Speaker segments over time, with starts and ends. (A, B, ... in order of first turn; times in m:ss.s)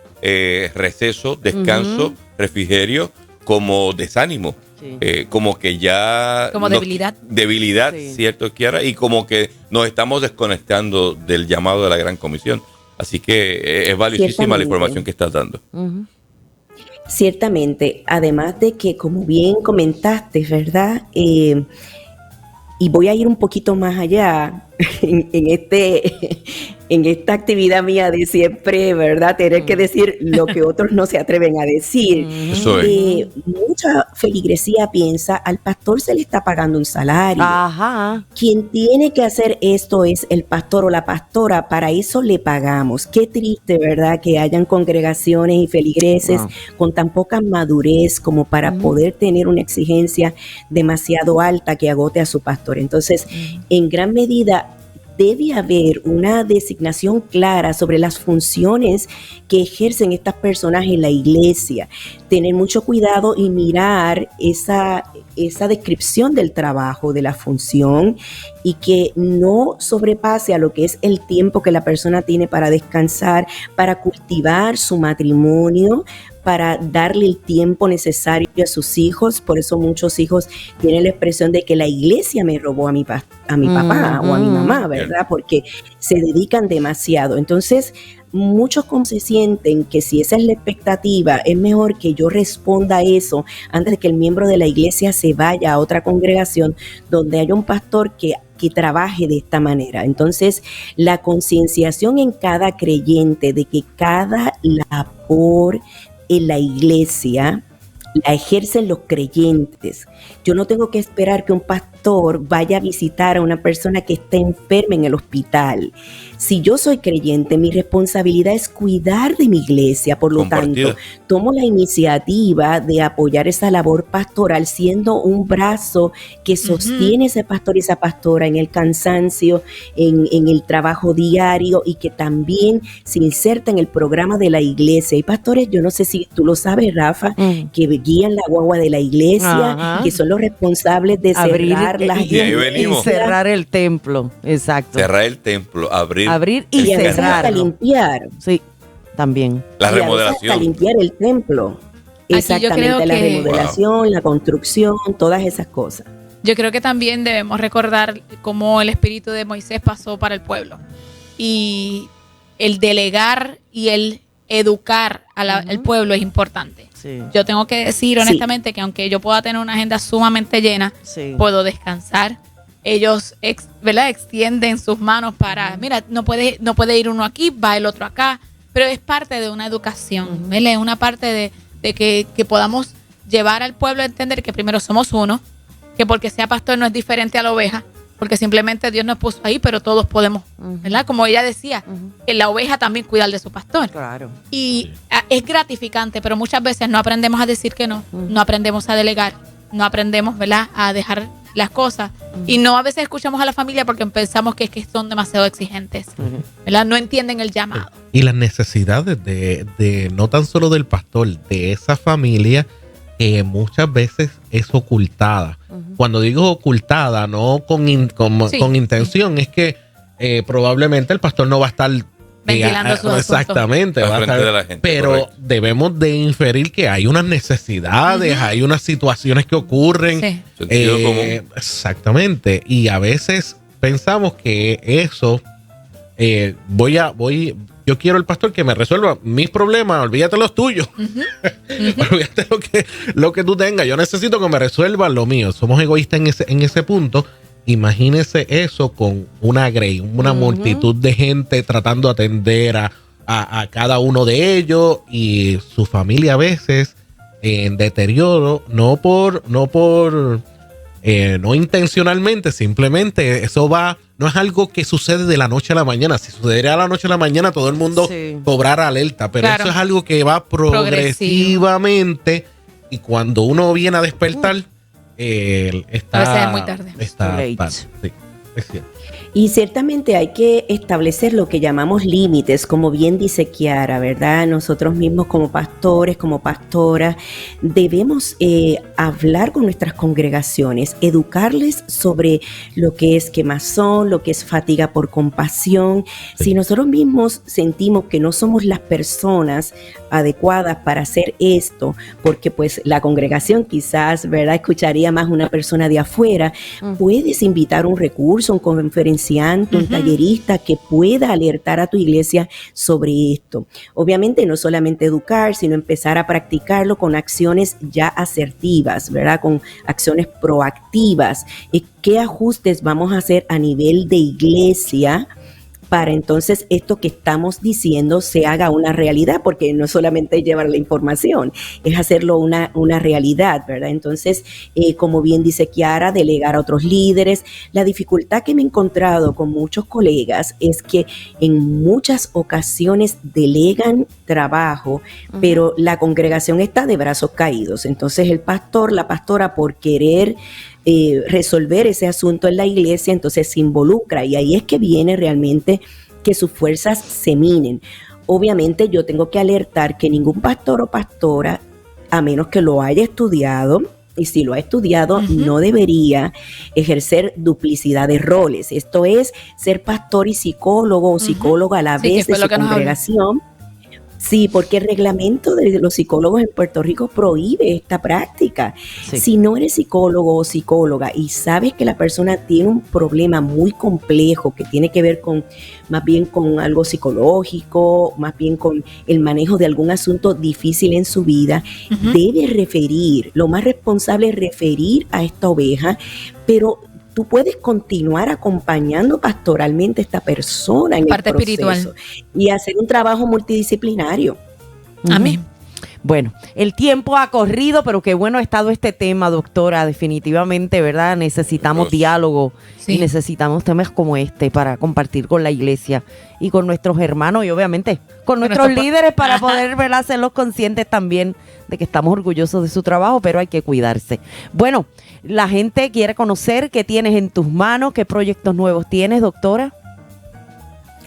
0:00.2-0:15.6 A
0:01.5-0:02.1 B
0:06.5-0:07.2 C
0:07.8-0:08.2 B
0:14.1-0:15.0 D
0:15.7-0:16.0 B
0:17.1-0:21.7 D
0:22.8-0:37.6 D
0:29.6-0:29.8 B
0:32.1-0:33.3 B
0:32.5-0:32.9 A
0:37.4-0:38.2 B
0:38.4-1:47.6 D
0:46.2-0:46.5 B
0:48.6-0:49.0 B
0:53.3-0:53.6 B
1:23.6-1:24.8 B
1:48.2-2:23.4 D
2:00.4-2:01.0 A
2:06.6-2:07.1 C
2:17.4-2:17.7 B
2:19.4-2:20.1 B
2:21.3-2:25.1 B
2:22.2-2:23.1 A
2:24.9-2:27.5 A
2:26.2-2:27.7 B
2:26.8-2:28.3 D
2:29.2-2:29.6 B
2:29.8-2:30.7 A
2:29.8-2:36.1 D
2:32.3-2:33.5 C
2:33.4-2:33.8 A
2:36.4-2:40.8 C
2:41.4-3:05.4 C
2:45.5-2:45.9 B
2:47.0-2:47.3 B
2:48.2-2:48.5 D
2:51.0-2:51.4 B
2:55.5-2:55.9 B
3:00.2-3:00.6 B
3:06.0-3:13.9 C
3:10.6-3:11.0 B
3:11.9-3:12.1 B
3:13.9-3:14.4 B
3:14.5-3:28.0 C
3:22.3-3:22.6 B
3:26.2-3:26.4 B
3:27.7-3:32.7 E
3:33.2-3:55.4 E
3:35.7-3:36.0 B
3:38.5-3:39.1 C
3:42.4-3:43.6 C
3:44.0-3:45.3 A
3:48.1-3:48.5 C
3:50.1-3:50.4 C
3:50.6-3:51.4 A
3:56.2-4:00.9 E
4:01.0-4:02.1 C
4:01.4-4:20.4 E
4:10.2-4:10.9 B
4:21.0-4:38.9 E
4:28.0-4:28.4 B
4:29.4-4:29.7 C
4:30.7-4:31.6 C
4:36.1-4:37.0 C
4:37.2-4:37.8 B
4:39.3-5:25.3 D
5:09.7-5:10.2 C
5:25.9-6:01.6 D
5:45.3-5:45.6 B
6:02.1-6:13.4 D
6:05.2-6:05.5 C
6:11.2-6:13.0 C
6:14.2-6:44.4 D
6:31.9-6:32.2 C
6:41.0-6:41.9 C
6:45.0-6:45.4 B
6:45.1-6:45.4 C
6:46.0-7:09.7 B
6:51.6-6:52.1 A
6:52.8-6:53.1 C
6:58.4-6:59.6 C